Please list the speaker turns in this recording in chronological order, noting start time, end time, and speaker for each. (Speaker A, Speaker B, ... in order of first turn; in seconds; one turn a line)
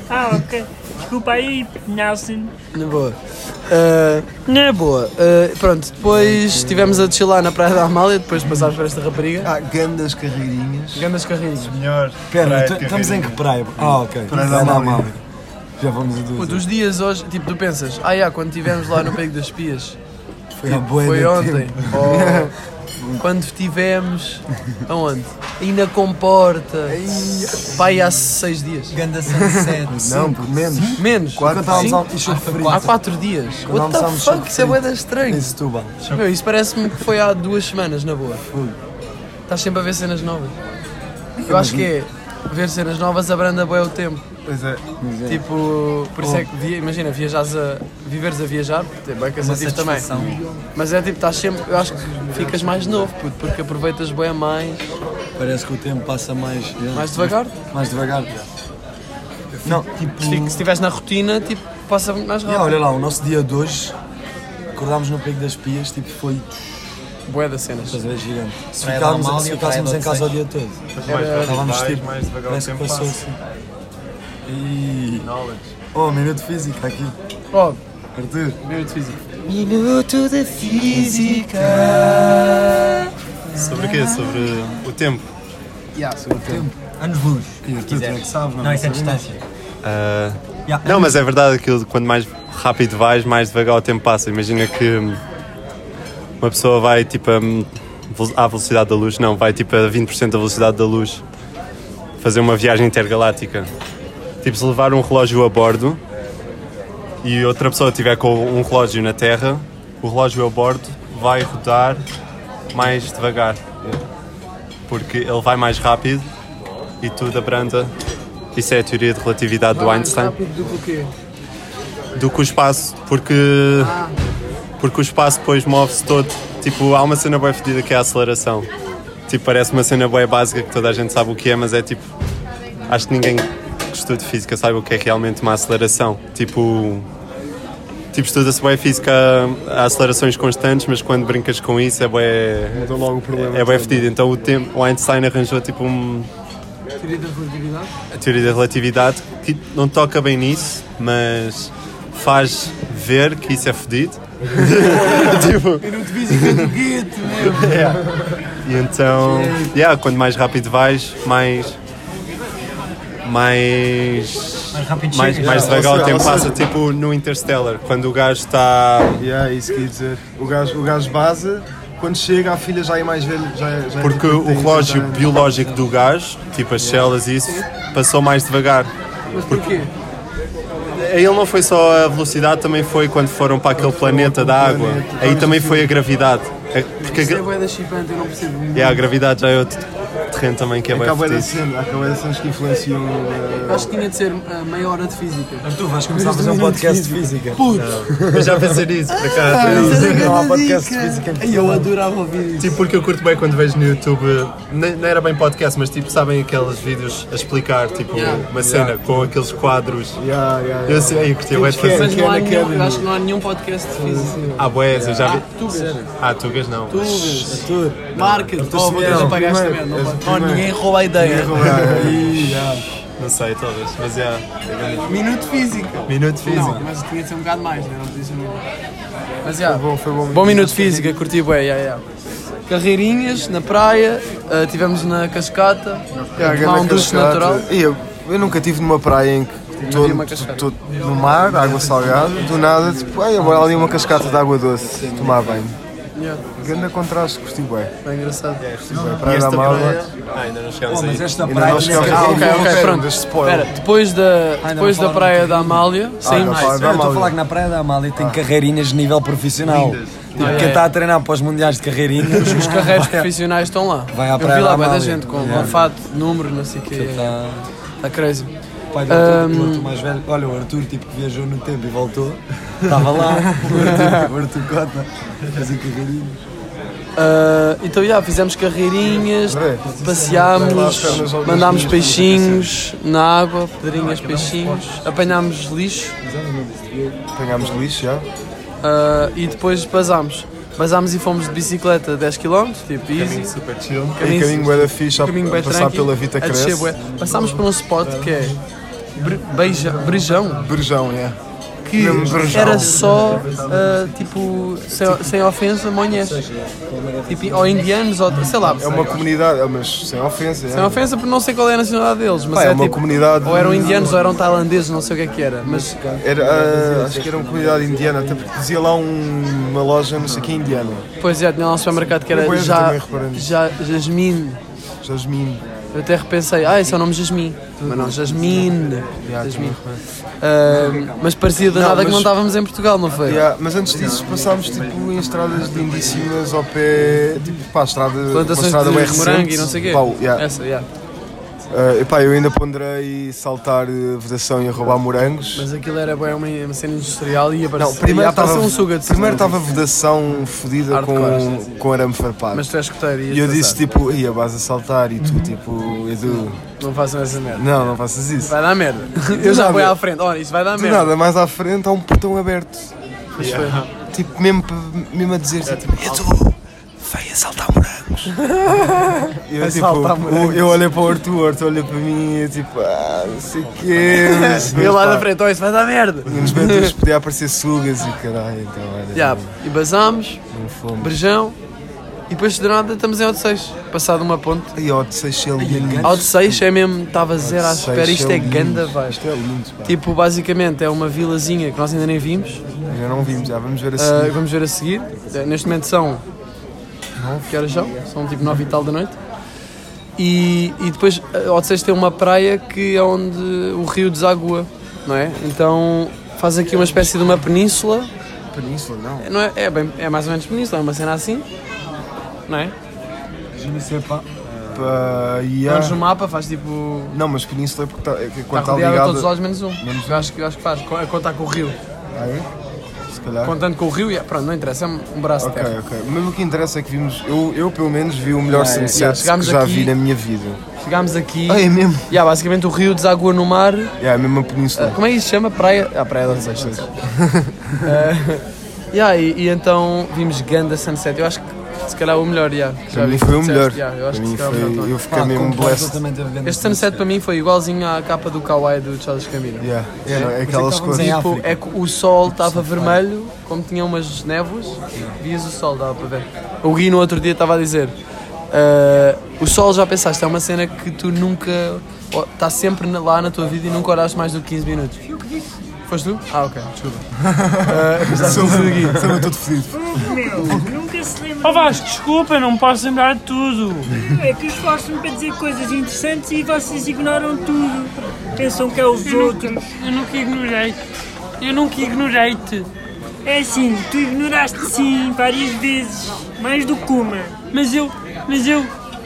Speaker A: 0.1-2.5
Speaker B: 2.7-9.5
Speaker C: 4.5-4.8
Speaker D: 6.0-7.1
Speaker E: 9.4-11.1
Speaker B: 10.9-11.8
Speaker F: 11.6-14.8
Speaker D: 12.3-15.2
Speaker E: 14.3-15.2
Speaker D: 15.8-16.6
Speaker B: 16.4-20.0
Speaker D: 20.6-22.4
Speaker B: 20.6-22.5
Speaker E: 22.0-22.5
Speaker B: 23.2-29.0
Speaker D: 26.9-27.9
Speaker G: 28.9-31.0
Speaker E: 29.3-32.0
Speaker D: 29.9-32.9
Speaker B: 31.0-32.0
Speaker G: 32.2-33.0
Speaker B: 32.6-38.4
Speaker D: 33.6-36.0
Speaker F: 36.0-36.3
Speaker D: 38.5-38.8
Speaker B: 39.5-40.5
Speaker D: 41.4-41.9
Speaker B: 41.5-44.2
Speaker E: 44.5-44.8
Speaker D: 45.0-45.4
Speaker B: 45.3-50.1
Speaker D: 46.2-46.5
Speaker G: 49.4-50.6
Speaker D: 50.1-50.4
Speaker B: 50.7-55.0
Speaker D: 52.4-52.9
Speaker D: 55.4-58.3
Speaker B: 56.9-57.6
Speaker D: 59.6-60.5
Speaker G: 59.7-60.5
Speaker B: 60.2-62.8
Speaker D: 62.5-64.0
Speaker D: 64.7-66.7
Speaker B: 67.3-68.0
Speaker D: 67.8-73.4
Speaker G: 68.8-70.3
Speaker F: 70.9-73.2
Speaker B: 71.1-71.6
Speaker D: 74.5-75.3
Speaker F: 75.2-75.7
Speaker D: 75.9-77.2
Speaker B: 77.5-77.8
Speaker D: 78.2-78.6
Speaker B: 78.6-79.2
Speaker G: 79.5-84.5
Speaker D: 80.8-82.5
Speaker F: 83.6-85.3
Speaker E: 86.2-86.7
Speaker D: 86.3-86.8
Speaker G: 86.8-89.4
Speaker D: 87.7-89.1
Speaker E: 87.7-89.2
Speaker F: 89.8-95.2
Speaker G: 90.7-91.2
Speaker F: 96.4-101.2
Speaker F: 102.2-103.7
Speaker F: 104.4-106.0
Speaker F: 107.2-112.0
Speaker F: 112.7-113.6
Speaker F: 114.9-116.3
Speaker F: 117.0-117.9
Speaker F: 118.5-120.4
Speaker B: 119.7-121.1
Speaker F: 122.2-124.0
Speaker B: 123.8-124.2
Speaker F: 124.8-128.7
Speaker F: 129.3-132.1
Speaker F: 132.9-137.1
Speaker F: 138.1-146.3
Speaker E: 142.7-144.2
Speaker B: 147.0-147.9
Speaker F: 148.1-156.7
Speaker B: 154.8-157.9
Speaker F: 157.4-158.0
Speaker F: 158.6-161.8
Speaker F: 163.2-169.2
Speaker G: 164.7-166.5
Speaker E: 165.4-166.7
Speaker E: 169.2-175.5
Speaker F: 174.0-179.8
Speaker E: 176.8-177.1
Speaker B: 179.3-179.9
Speaker F: 180.9-187.5
Speaker E: 183.8-186.0
Speaker B: 187.0-189.1
Speaker F: 188.7-191.5
Speaker E: 190.9-193.9
Speaker B: 193.7-197.9
Speaker D: 195.6-198.8
Speaker F: 197.7-200.3
Speaker B: 199.1-202.8
Speaker D: 199.6-201.9
Speaker F: 202.6-210.2
Speaker B: 208.1-208.5
Speaker E: 208.3-209.2
Speaker E: 210.2-213.1
Speaker F: 210.8-212.2
Speaker B: 211.8-214.4
Speaker D: 214.0-214.6
Speaker F: 214.6-215.5
Speaker E: 214.9-215.3
Speaker B: 215.2-216.0
Speaker D: 215.7-216.1
Speaker F: 216.1-217.6
Speaker B: 216.9-221.8
Speaker D: 217.5-219.4
Speaker F: 218.2-218.7
Speaker E: 218.8-222.4
Speaker D: 221.6-222.8
Speaker F: 223.2-225.2
Speaker B: 225.1-228.6
Speaker F: 226.1-226.9
Speaker B: 229.4-232.0
Speaker E: 229.6-231.2
Speaker B: 232.7-237.7
Speaker E: 236.1-245.8
Speaker B: 239.8-240.7
Speaker D: 241.6-245.7
Speaker B: 246.2-246.4
Speaker E: 246.6-247.9
Speaker B: 248.0-248.6
Speaker F: 248.6-252.1
Speaker E: 248.9-250.1
Speaker D: 250.9-252.9
Speaker E: 251.4-253.7
Speaker B: 251.9-256.8
Speaker D: 254.6-263.3
Speaker E: 256.2-257.4
Speaker E: 258.2-258.4
Speaker F: 259.6-260.8
Speaker B: 260.4-260.9
Speaker B: 262.3-267.4
Speaker D: 264.1-265.9
Speaker D: 266.9-267.7
Speaker B: 268.0-268.5
Speaker D: 268.9-276.4
Speaker B: 269.1-269.9
Speaker B: 273.7-274.3
Speaker B: 277.2-286.2
Speaker E: 279.4-279.9
Speaker D: 279.8-282.0
Speaker E: 280.5-282.8
Speaker D: 284.1-284.9
Speaker D: 286.2-287.9
Speaker E: 287.3-288.3
Speaker B: 288.8-293.5
Speaker F: 293.1-294.2
Speaker B: 294.2-298.6
Speaker E: 294.2-297.0
Speaker D: 297.0-298.6
Speaker B: 299.2-300.6
Speaker D: 299.2-300.6
Speaker E: 300.6-301.4
Speaker B: 301.9-306.4
Speaker E: 301.9-303.2
Speaker D: 302.0-304.1
Speaker F: 302.5-303.8
Speaker D: 305.0-305.4
Speaker D: 306.1-309.3
Speaker B: 307.3-309.1
Speaker E: 308.8-311.0
Speaker B: 310.7-315.9
Speaker E: 312.5-314.3
Speaker D: 313.4-318.5
Speaker E: 316.2-321.1
Speaker B: 321.2-324.6
Speaker E: 322.3-323.6
Speaker E: 325.0-325.6
Speaker B: 325.9-333.5
Speaker E: 327.9-328.2
Speaker D: 328.0-328.8
Speaker E: 329.2-330.0
Speaker D: 330.6-331.4
Speaker E: 331.7-332.3
Speaker E: 333.2-340.5
Speaker D: 334.1-334.9
Speaker D: 335.6-336.3
Speaker B: 338.3-340.9
Speaker E: 341.7-345.7
Speaker B: 345.6-349.9
Speaker E: 347.8-352.7
Speaker B: 350.9-351.6
Speaker B: 352.5-353.8
Speaker E: 353.3-356.6
Speaker B: 356.8-357.7
Speaker E: 357.6-358.6
Speaker B: 358.4-361.1
Speaker E: 359.2-360.0
Speaker E: 360.7-362.9
Speaker B: 363.4-363.9
Speaker F: 363.4-363.9
Speaker E: 364.1-368.3
Speaker F: 365.6-366.4
Speaker B: 368.4-370.8
Speaker E: 369.4-375.3
Speaker F: 373.6-374.6
Speaker B: 374.2-376.9
Speaker E: 376.2-379.5
Speaker B: 379.1-380.4
Speaker E: 380.5-381.2
Speaker B: 381.0-381.6
Speaker B: 382.3-384.7
Speaker E: 384.8-386.7
Speaker D: 385.6-386.3
Speaker B: 386.0-389.2
Speaker E: 387.4-390.0
Speaker B: 389.8-392.6
Speaker E: 392.9-394.4
Speaker B: 394.0-396.2
Speaker E: 397.2-397.8
Speaker B: 397.5-399.2
Speaker B: 400.2-408.1
Speaker E: 408.5-409.3
Speaker B: 409.2-411.5
Speaker B: 412.5-412.8
Speaker D: 413.5-414.3
Speaker F: 414.4-415.2
Speaker E: 414.7-416.0
Speaker B: 415.7-417.2
Speaker E: 417.1-420.3
Speaker B: 418.5-421.8
Speaker E: 422.1-422.5
Speaker E: 423.1-423.6
Speaker B: 423.4-425.7
Speaker E: 425.4-430.6
Speaker D: 428.5-429.0
Speaker B: 428.6-429.9
Speaker B: 430.8-433.9
Speaker E: 431.5-432.1
Speaker E: 434.0-435.0
Speaker B: 434.8-436.9
Speaker E: 436.3-437.7
Speaker B: 437.8-444.9
Speaker E: 442.9-446.0
Speaker D: 445.1-447.1
Speaker B: 446.4-450.3
Speaker E: 449.6-451.1
Speaker D: 450.1-451.6
Speaker B: 450.9-457.9
Speaker D: 452.2-453.0
Speaker B: 458.5-465.0
Speaker B: 465.9-467.0
Speaker E: 467.2-470.6
Speaker B: 467.6-469.2
Speaker A: 469.7-471.9
Speaker C: 471.4-473.9
Speaker A: 474.0-479.6
Speaker C: 479.1-480.8
Speaker C: 481.4-482.7
Speaker A: 483.2-487.4
Speaker C: 487.5-488.7